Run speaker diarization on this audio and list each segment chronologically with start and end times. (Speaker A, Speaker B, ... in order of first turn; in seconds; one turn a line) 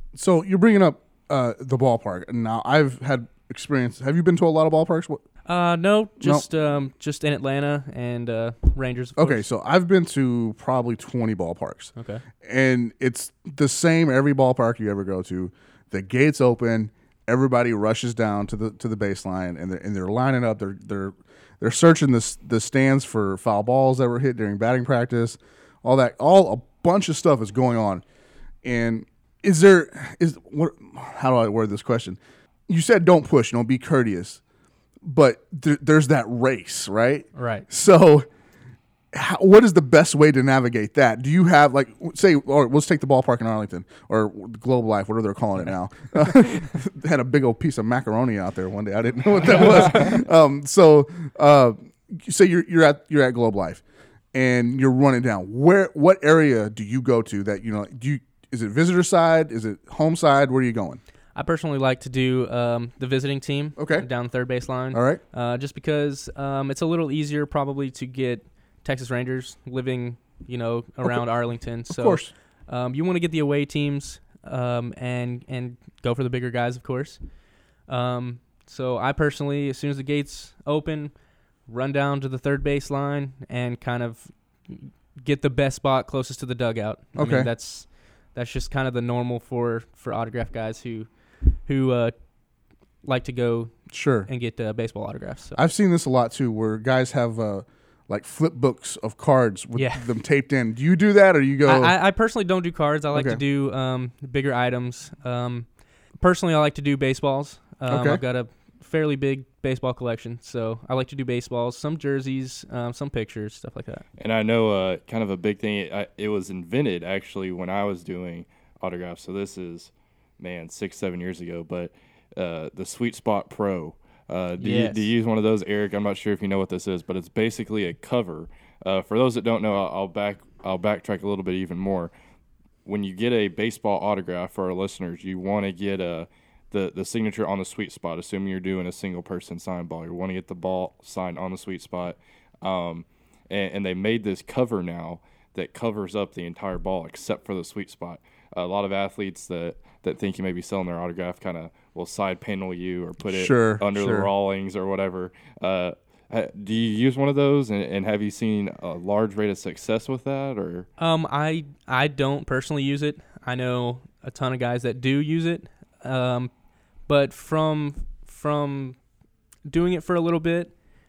Speaker A: 0.1-5.2
Speaker B: 5.5-9.4
Speaker A: 6.2-6.5
Speaker A: 9.2-11.9
Speaker B: 12.0-12.2
Speaker A: 12.4-28.0
Speaker A: 28.6-34.4
Speaker A: 35.0-38.3
Speaker B: 37.4-37.7
Speaker A: 39.1-53.8
Speaker A: 54.3-61.0
Speaker B: 61.4-77.2
Speaker A: 63.8-64.1
Speaker A: 64.9-65.2
Speaker A: 71.9-72.3
Speaker B: 77.9-81.1
Speaker B: 81.7-91.1
Speaker A: 87.2-87.5
Speaker B: 91.7-92.1
Speaker B: 93.0-93.7
Speaker A: 93.9-94.3
Speaker B: 94.3-95.6
Speaker A: 95.6-102.0
Speaker B: 99.8-100.1
Speaker B: 101.7-114.0
Speaker A: 103.1-103.4
Speaker A: 107.9-108.2
Speaker C: 114.2-132.1
Speaker B: 124.6-125.1
Speaker C: 132.8-160.9
Speaker A: 153.3-154.3
Speaker B: 161.0-166.5
Speaker B: 167.1-169.0
Speaker B: 169.7-170.7